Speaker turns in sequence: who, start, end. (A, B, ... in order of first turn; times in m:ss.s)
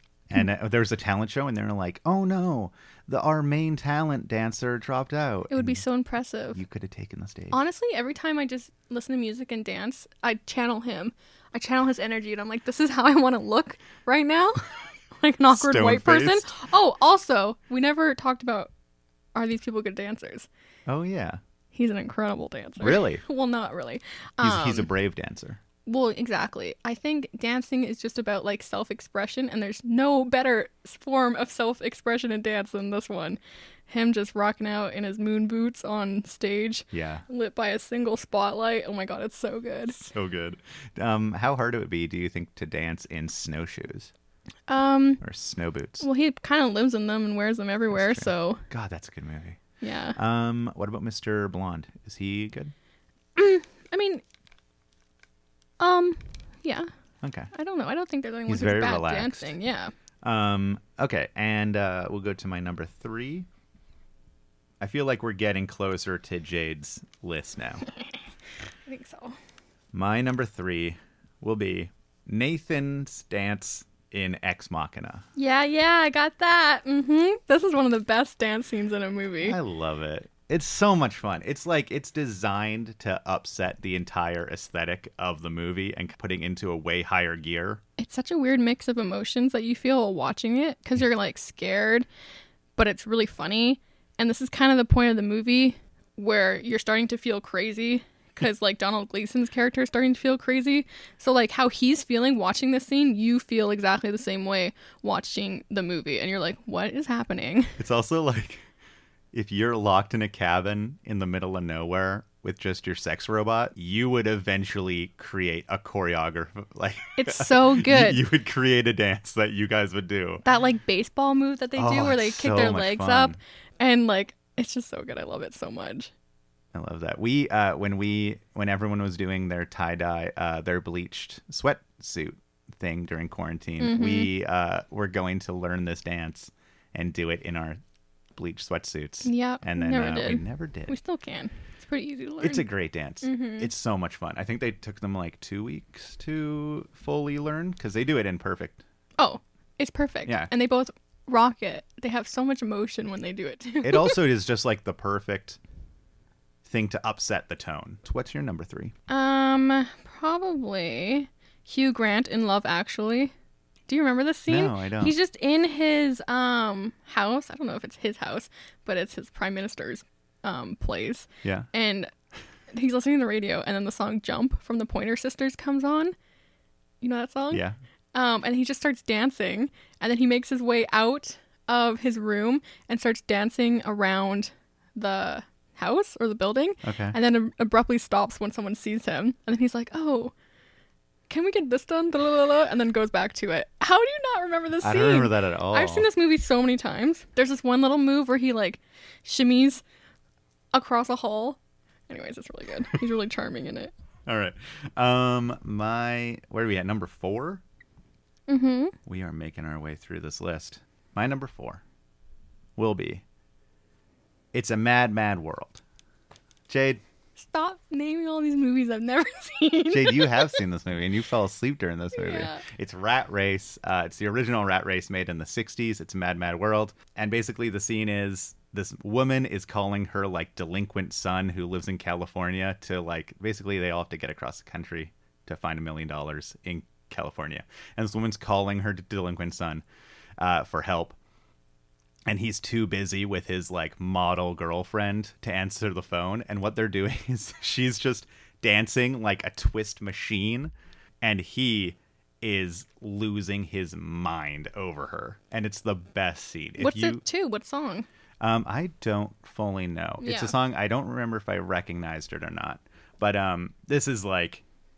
0:00.3-0:05.8 A
0:05.5-0:06.6 B
0:06.5-0:07.6 A
0:07.5-0:18.7 B
0:15.5-0:16.5 A
0:19.3-0:20.5 B
0:20.9-0:21.4 A
0:21.7-0:24.9 B
0:22.8-0:23.2 A
0:24.4-0:25.6 A
0:25.8-0:40.0 B
0:36.9-0:37.2 A
0:39.9-0:44.1 A
0:44.7-0:45.2 B
0:45.2-0:46.0 A
0:46.0-0:48.6 B
0:47.9-0:49.6 A
0:49.8-0:50.2 B
0:50.1-0:52.7 A
0:53.4-0:54.2 B
0:55.8-0:56.9 B
0:57.2-0:57.5 A
0:57.5-0:59.9 B
0:58.5-0:59.5 A
1:00.2-1:03.5 A
1:04.8-1:07.8 A
1:08.8-1:09.3 B
1:09.9-1:15.2 A
1:15.4-1:19.6 B
1:19.4-1:27.8 A
1:28.0-1:32.1 B
1:32.8-1:47.8 B
1:47.8-1:48.6 A
1:49.3-2:00.4 A
1:57.2-1:58.2 B
2:00.4-2:06.1 B
2:01.8-2:03.4 A
2:06.7-2:17.8 A
2:13.8-2:14.3 B
2:18.4-2:20.9 A
2:19.2-2:22.7 B
2:22.4-2:28.8 A
2:23.2-2:23.7 B
2:29.2-2:34.2 B
2:33.8-2:35.6 A
2:36.6-2:38.9 A
2:39.1-2:43.3 B
2:43.9-2:52.1 B
2:44.5-2:45.1 A
2:52.7-2:56.1 B
2:57.0-3:10.3 B
2:57.5-2:57.8 A
3:06.8-3:07.2 A
3:11.3-3:19.8 B
3:14.8-3:16.1 A
3:20.7-3:23.9 B
3:24.2-3:27.6 A
3:28.5-3:28.9 B
3:29.0-3:31.8 A
3:32.8-3:33.2 A
3:34.5-3:35.8 A
3:36.7-3:37.0 A
3:37.4-3:40.6 B
3:39.9-3:59.8 A
3:42.1-3:42.6 B
4:00.4-4:01.2 A
4:02.3-4:17.2 A
4:16.8-4:18.1 B
4:18.4-4:24.6 A
4:20.2-4:20.5 B